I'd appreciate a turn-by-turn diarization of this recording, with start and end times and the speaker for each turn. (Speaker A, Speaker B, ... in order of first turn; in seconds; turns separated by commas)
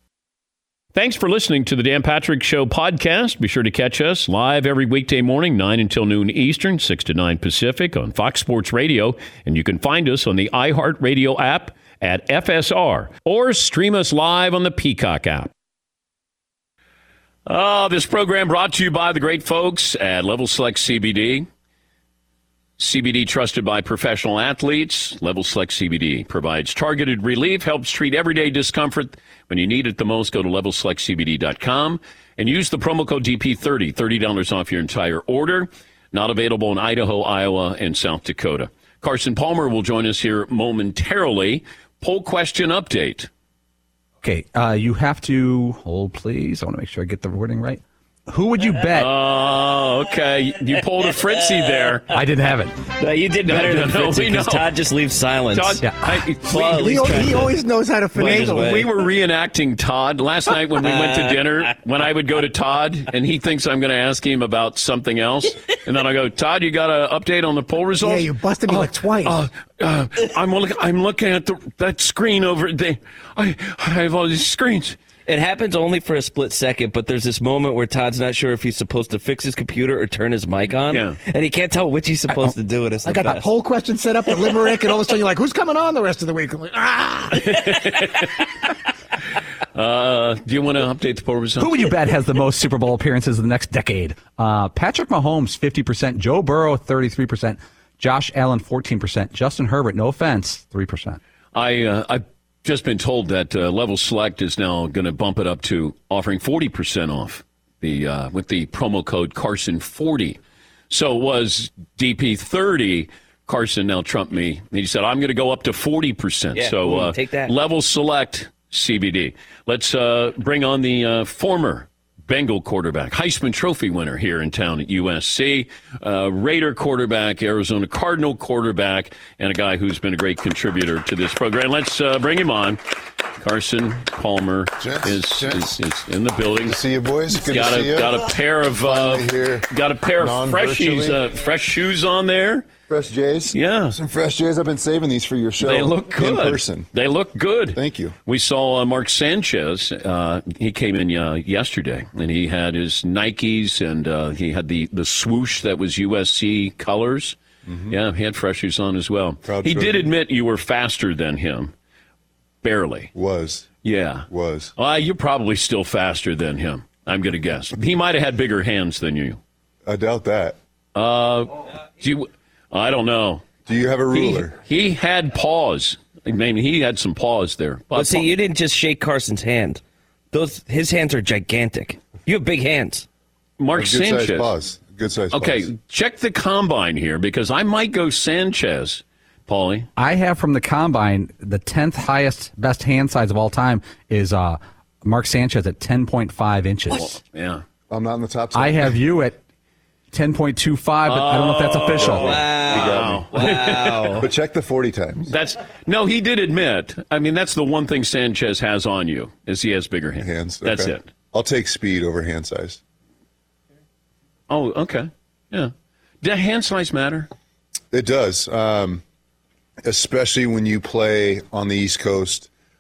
Speaker A: 0.9-15.5, Speaker A: 17.5-21.5, Speaker A: 22.8-43.3, Speaker B: 44.2-49.1, Speaker A: 49.0-52.0, Speaker B: 52.1-52.8, Speaker C: 53.0-55.9, Speaker A: 53.5-54.8, Speaker A: 55.5-57.5, Speaker C: 56.5-57.6, Speaker D: 56.5-58.9, Speaker A: 58.2-75.0, Speaker C: 58.2-58.9, Speaker C: 60.8-61.7, Speaker D: 68.0-69.5, Speaker C: 75.3-83.5, Speaker A: 80.9-81.2, Speaker D: 83.0-87.8, Speaker A: 87.4-88.5, Speaker A: 89.8-91.7, Speaker B: 91.6-101.2, Speaker A: 101.5-110.4, Speaker A: 110.9-132.8, Speaker C: 116.5-117.5, Speaker A: 133.4-136.8, Speaker E: 134.8-135.7, Speaker E: 136.6-138.2, Speaker A: 137.3-142.7, Speaker E: 138.8-141.2, Speaker E: 142.9-146.9, Speaker A: 143.5-144.0, Speaker A: 145.6-157.4, Speaker E: 147.7-148.2, Speaker E: 157.7-157.9, Speaker A: 157.9-161.7, Speaker E: 159.4-160.1, Speaker A: 162.6-163.1, Speaker E: 163.1-163.7, Speaker A: 163.8-169.4, Speaker E: 164.3-164.7, Speaker E: 169.9-170.6, Speaker A: 170.9-173.5, Speaker E: 173.7-174.5, Speaker A: 174.1-178.3, Speaker C: 177.9-183.1, Speaker A: 183.6-184.5, Speaker E: 183.7-185.7, Speaker A: 185.3-189.9, Speaker B: 190.0-197.2, Speaker A: 196.9-197.6, Speaker E: 197.9-199.0, Speaker B: 198.6-199.4, Speaker B: 200.1-202.4, Speaker A: 201.1-204.3, Speaker E: 202.0-203.3, Speaker C: 202.1-204.3, Speaker E: 204.2-205.3, Speaker A: 205.3-211.1, Speaker E: 210.2-212.8, Speaker A: 214.5-217.3, Speaker E: 217.9-219.0, Speaker E: 219.8-222.5